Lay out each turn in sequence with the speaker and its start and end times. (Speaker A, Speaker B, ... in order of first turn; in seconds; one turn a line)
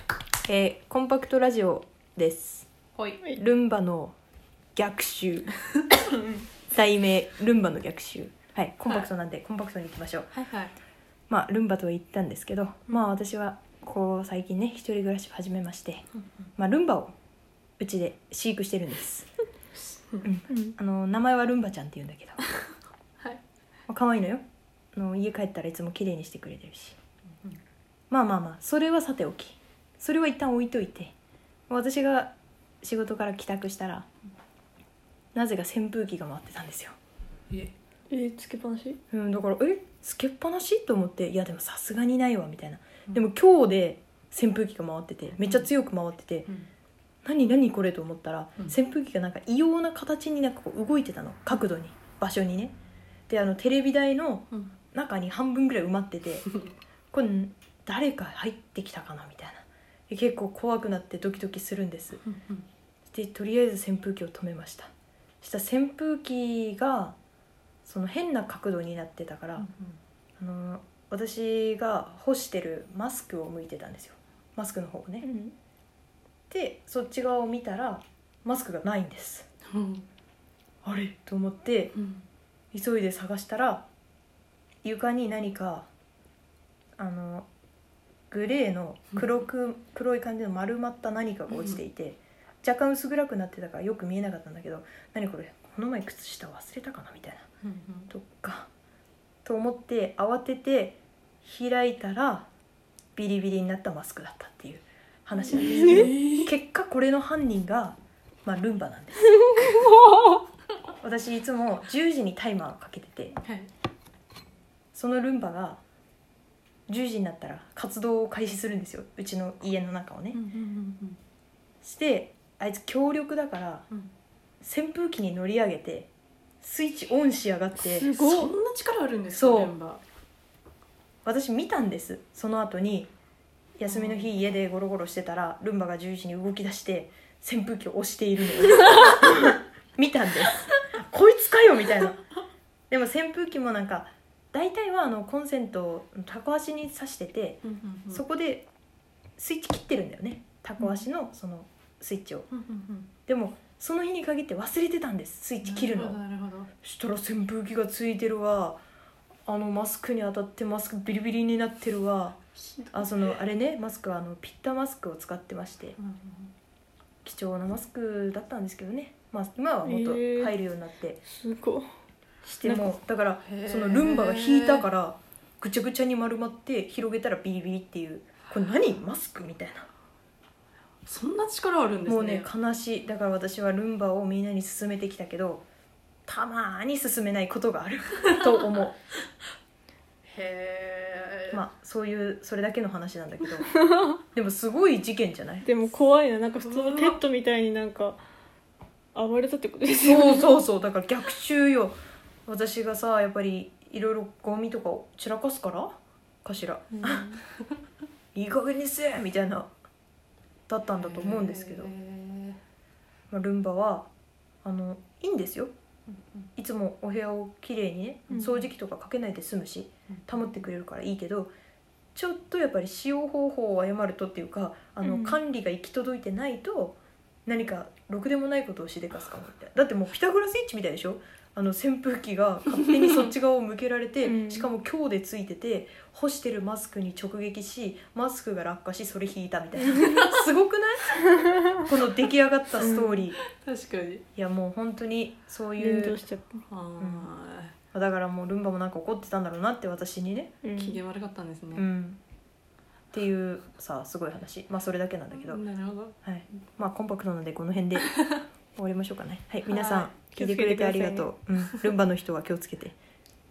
Speaker A: 0.5-2.7
Speaker B: 3.0-3.2
Speaker A: 3.3-4.2
Speaker A: 4.8-5.5
Speaker A: 6.7-10.3
Speaker B: 10.3-10.7
Speaker A: 11.3-16.0
Speaker A: 16.6-17.1
Speaker A: 17.8-19.3
Speaker A: 20.2-22.4
Speaker A: 23.9-27.0
Speaker A: 28.1-31.1
Speaker A: 31.7-34.1
Speaker A: 35.3-37.0
Speaker C: 38.1-39.0
Speaker A: 39.1-46.5
Speaker A: 47.2-52.8
Speaker A: 53.3-56.5
Speaker A: 57.1-62.2
Speaker B: 62.2-62.6
Speaker A: 63.1-64.9
Speaker A: 65.4-67.2
Speaker A: 67.8-69.7
Speaker B: 69.6-69.9
Speaker A: 70.4-75.3
Speaker C: 75.2-75.5
Speaker A: 76.5-79.5
Speaker B: 79.7-80.0
Speaker A: 80.8-81.9
Speaker B: 82.0-82.2
Speaker A: 82.7-83.9
Speaker A: 84.8-85.9
Speaker A: 87.0-87.5
Speaker A: 88.3-97.5
Speaker B: 97.7-98.1
Speaker A: 98.1-98.7
Speaker A: 99.5-102.5
Speaker A: 103.2-109.5
Speaker B: 105.4-106.5
Speaker C: 105.7-106.1
Speaker C: 109.7-110.2
Speaker A: 111.0-113.4
Speaker A: 114.9-115.8
Speaker A: 116.9-120.4
Speaker B: 120.3-121.2
Speaker A: 121.8-123.9
Speaker A: 124.6-126.1
Speaker A: 126.6-128.1
Speaker C: 127.9-128.5
Speaker B: 128.0-130.0
Speaker A: 129.3-129.7
Speaker A: 131.2-133.1
Speaker A: 133.8-142.2
Speaker B: 133.9-134.3
Speaker A: 142.9-147.6
Speaker B: 147.6-148.2
Speaker A: 148.1-148.7
Speaker A: 149.4-152.5
Speaker B: 152.5-153.1
Speaker A: 153.3-156.2
Speaker B: 155.6-156.7
Speaker A: 156.8-158.8
Speaker A: 159.5-162.4
Speaker A: 162.9-166.0
Speaker B: 166.0-166.5
Speaker A: 167.2-171.2
Speaker C: 169.8-170.5
Speaker C: 171.3-171.9
Speaker C: 172.5-172.9
Speaker A: 172.6-179.9
Speaker B: 173.4-174.9
Speaker B: 181.1-182.5
Speaker A: 182.1-185.7
Speaker A: 186.3-189.0
Speaker B: 190.3-191.6
Speaker A: 191.5-195.7
Speaker C: 195.6-198.2
Speaker B: 196.6-197.2
Speaker C: 199.1-200.5
Speaker A: 200.1-207.4
Speaker C: 207.0-207.4
Speaker A: 208.3-209.7
Speaker A: 210.7-211.9
Speaker B: 211.0-212.6
Speaker A: 213.3-214.1
Speaker A: 214.6-215.7
Speaker B: 216.1-216.5
Speaker A: 216.6-221.5
Speaker B: 220.1-220.5
Speaker A: 222.2-243.4
Speaker C: 225.0-225.4
Speaker C: 234.2-234.7
Speaker B: 240.0-240.4
Speaker C: 242.8-243.2
Speaker B: 243.5-244.2
Speaker A: 244.3-246.2
Speaker C: 245.8-246.7
Speaker B: 246.7-247.8
Speaker A: 247.0-247.3
Speaker A: 247.9-250.6
Speaker C: 250.6-251.0
Speaker B: 250.8-251.8
Speaker A: 251.7-252.2
Speaker A: 253.1-255.6
Speaker B: 255.3-256.1
Speaker A: 256.2-258.1
Speaker A: 258.8-263.0
Speaker B: 259.7-260.1
Speaker C: 260.4-261.3